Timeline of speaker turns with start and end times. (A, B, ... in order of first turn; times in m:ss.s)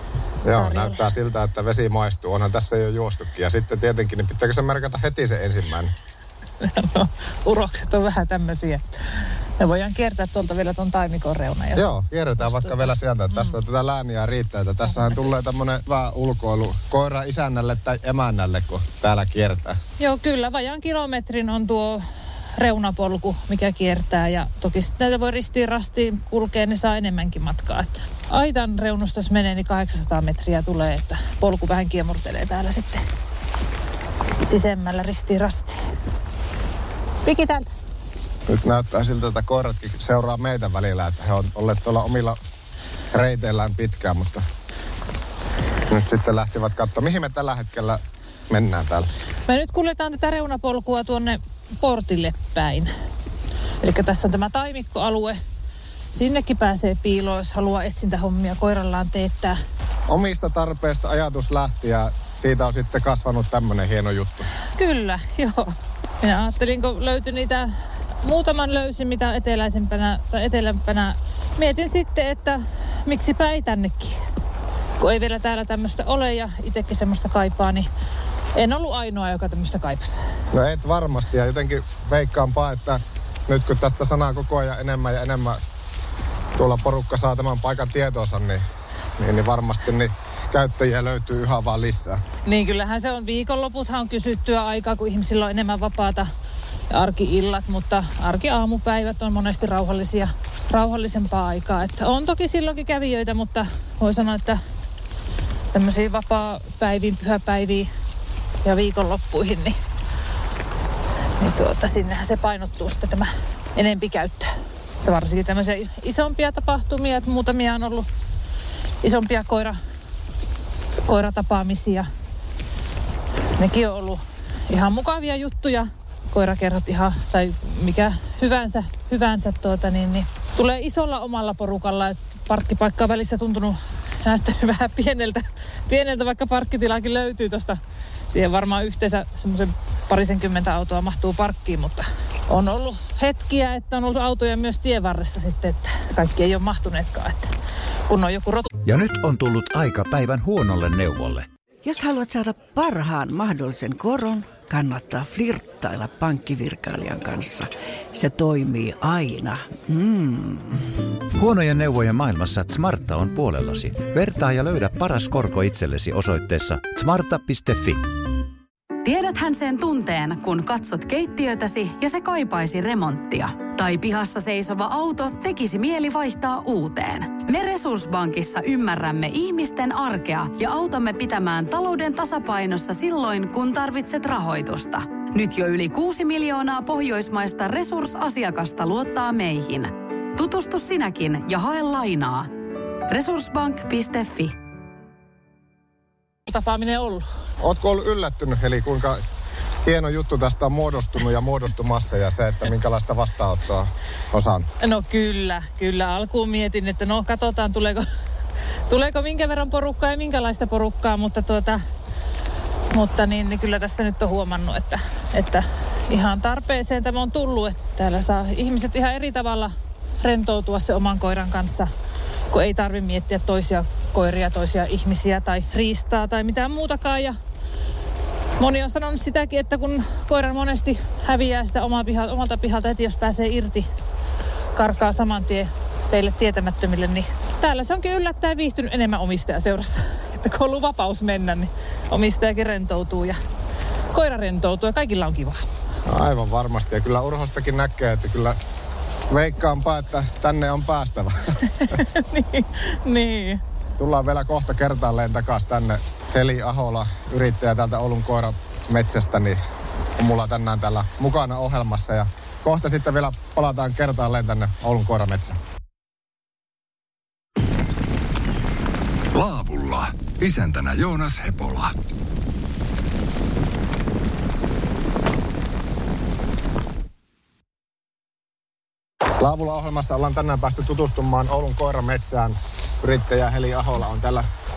0:00.4-0:05.9 A
0:00.5-0:01.0 B
0:06.6-0:13.6 B
0:11.8-0:19.8 A
0:20.0-0:33.0 B
0:34.4-0:35.8 B
0:37.2-0:37.7 B
0:38.5-0:42.4 A
0:43.1-0:44.4 A
0:45.9-0:49.1 A
0:49.5-0:52.9 B
0:53.8-0:55.4 B
0:56.1-0:59.6 B
1:00.1-1:04.5 A
1:04.7-1:07.7 B
1:08.2-1:14.2 B
1:15.0-1:17.9 B
1:18.6-1:20.2 B
1:20.5-1:25.6 A
1:26.6-1:28.6 A
1:29.2-1:32.2 A
1:32.5-1:36.3 B
1:36.9-1:44.6 B
1:45.7-1:47.9 B
1:48.6-1:49.8 B
1:51.4-1:54.5 B
1:55.0-1:58.1 B
1:59.0-1:59.8 B
2:01.1-2:02.1 B
2:03.6-2:27.5 B
2:28.1-2:28.7 B
2:28.9-2:31.5 C
2:31.8-2:40.8 D
2:41.4-2:48.0 C
2:49.0-3:12.5 E
3:13.1-3:14.6 E
3:16.5-3:17.3 B
3:17.6-3:19.2 A
3:19.8-3:24.7 A
3:24.8-3:28.1 B
3:28.9-3:31.8 B
3:32.9-3:41.9 B
3:42.5-3:47.4 B
3:48.6-3:53.9 B
3:54.8-4:03.4 B
4:04.1-4:05.7 B
4:06.1-4:08.6 A
4:09.3-4:11.6 A
4:11.8-4:13.6 B
4:14.0-4:19.6 A
4:20.2-4:25.6 A
4:29.3-4:31.9 F
4:39.4-4:44.5 A